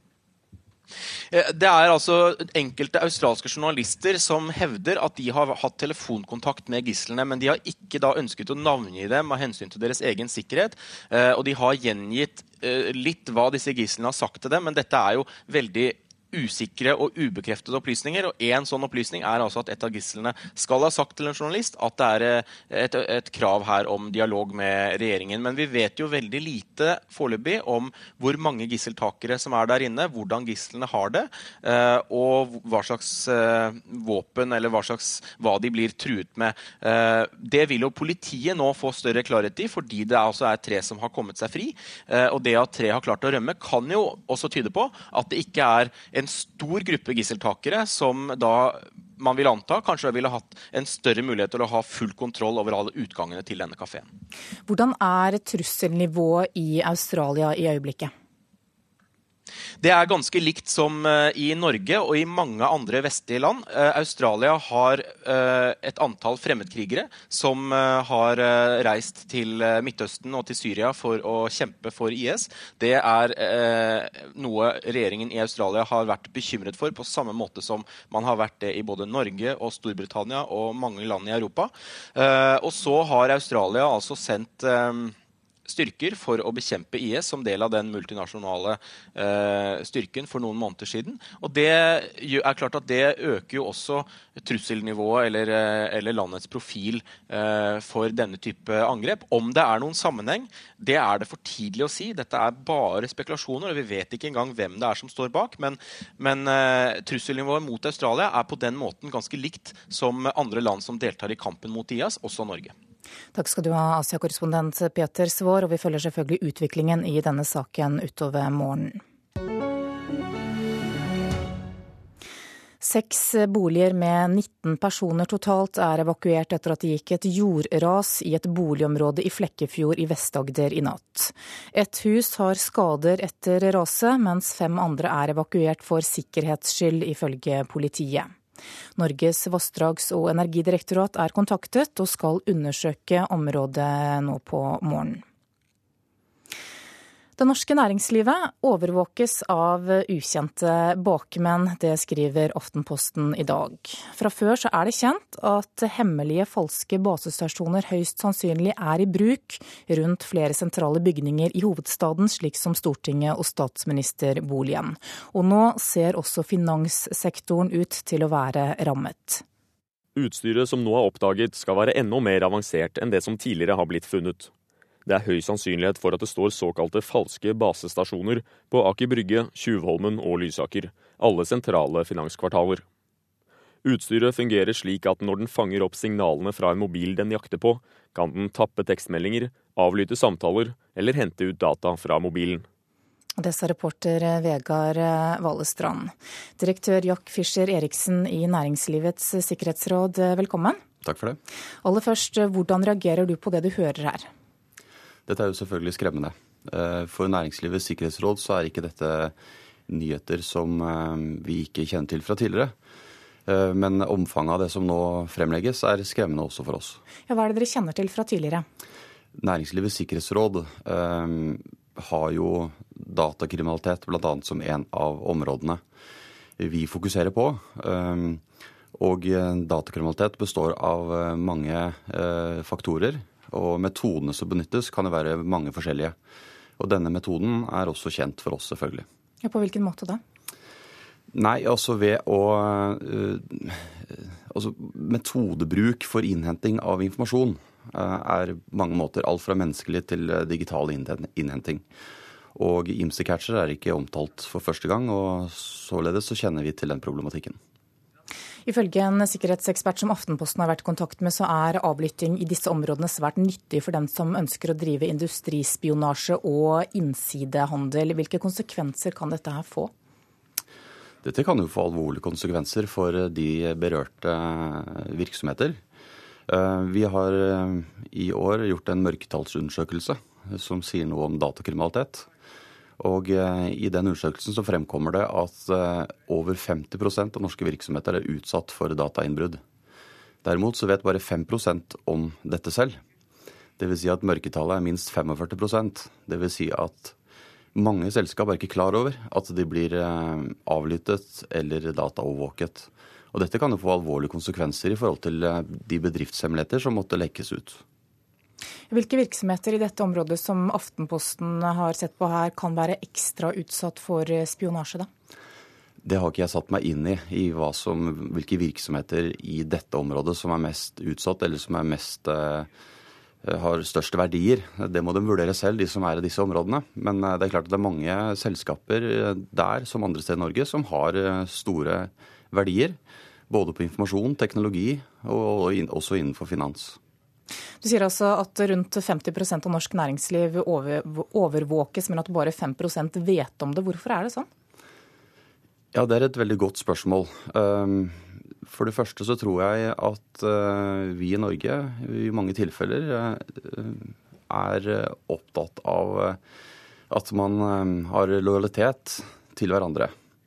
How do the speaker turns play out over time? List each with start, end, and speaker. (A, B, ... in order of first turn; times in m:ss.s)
0:01.3-0:54.1 A
0:54.7-0:58.1 B
0:59.8-1:25.2 A
1:25.7-1:52.7 A
1:53.3-1:59.0 B
2:02.8-2:18.3 B
2:19.0-2:25.2 B
2:27.4-2:49.4 B
2:50.2-2:54.5 C
2:55.1-3:02.8 C
3:03.8-3:12.7 C
3:13.4-3:20.8 B
3:21.0-3:21.4 D
3:21.8-3:24.3 B
3:25.3-3:29.3 D
3:29.9-3:32.8 D
3:33.5-3:37.0 D
3:37.3-3:38.7 B
3:39.4-3:45.8 D
3:46.6-3:48.4 D
3:49.0-3:56.2 D
3:56.8-3:59.1 D
3:59.4-4:00.2 B
4:01.3-4:11.8 D
4:12.6-4:17.6 D
4:18.7-4:29.9 B
4:31.2-4:35.8 D
4:36.5-4:42.3 D
4:43.0-4:49.6 D
4:50.4-4:53.0 D
4:53.8-4:57.2 D
4:57.7-5:07.8 D
5:08.9-5:15.1 B
5:16.0-5:22.7 D
5:23.4-5:33.0 D
5:33.5-5:37.0 D
5:37.8-5:44.5 B
5:45.9-5:56.4 D
5:57.1-6:00.2 D